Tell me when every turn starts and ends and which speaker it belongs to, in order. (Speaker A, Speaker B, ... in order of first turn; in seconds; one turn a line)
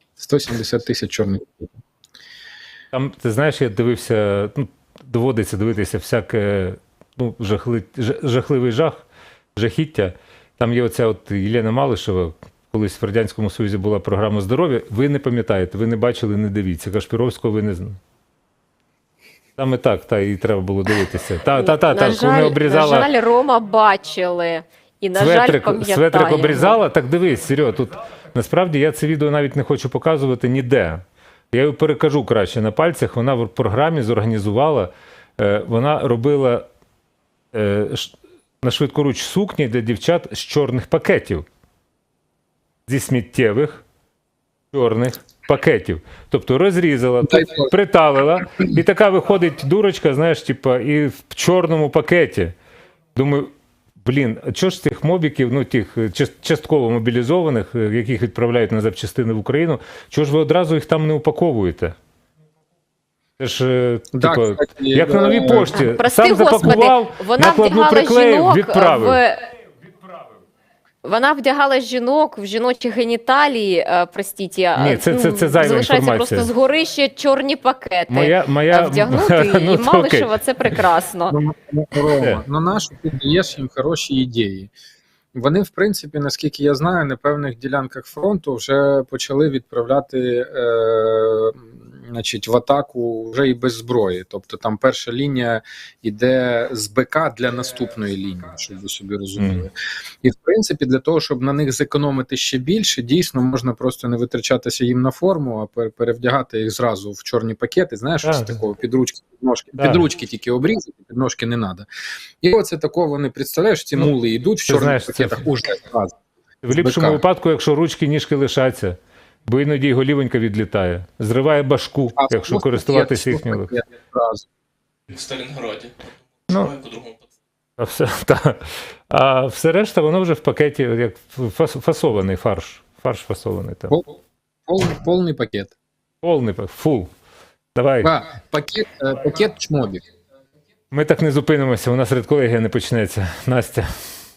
Speaker A: 0.2-1.7
Speaker B: 2.9-9.1
Speaker B: 9.6-18.0
Speaker B: 19.6-23.1
Speaker C: 21.5-26.8
Speaker B: 25.2-36.7
Speaker B: 37.5-41.5
Speaker B: 42.9-43.8
Speaker B: 44.7-52.5
Speaker B: 53.1-62.0
Speaker B: 63.4-69.2
Speaker A: 64.1-65.8
Speaker C: 65.4-69.4
Speaker C: 71.0-81.3
Speaker B: 74.8-76.5
Speaker B: 78.1-80.8
Speaker A: 81.3-84.7
Speaker B: 82.2-82.4
Speaker A: 85.3-99.7
Speaker B: 99.4-99.6
Speaker A: 100.2-111.9
Speaker B: 108.2-108.6
Speaker B: 109.8-110.0
Speaker A: 112.4-116.2
Speaker B: 114.7-115.4
Speaker B: 116.6-123.7
Speaker A: 116.7-117.2
Speaker A: 122.2-124.5
Speaker D: 125.1-127.2
Speaker B: 126.5-126.8
Speaker B: 127.8-134.0
Speaker A: 134.7-135.7
Speaker B: 136.2-137.1
Speaker B: 137.8-138.1
Speaker A: 138.0-140.0
Speaker B: 140.9-143.9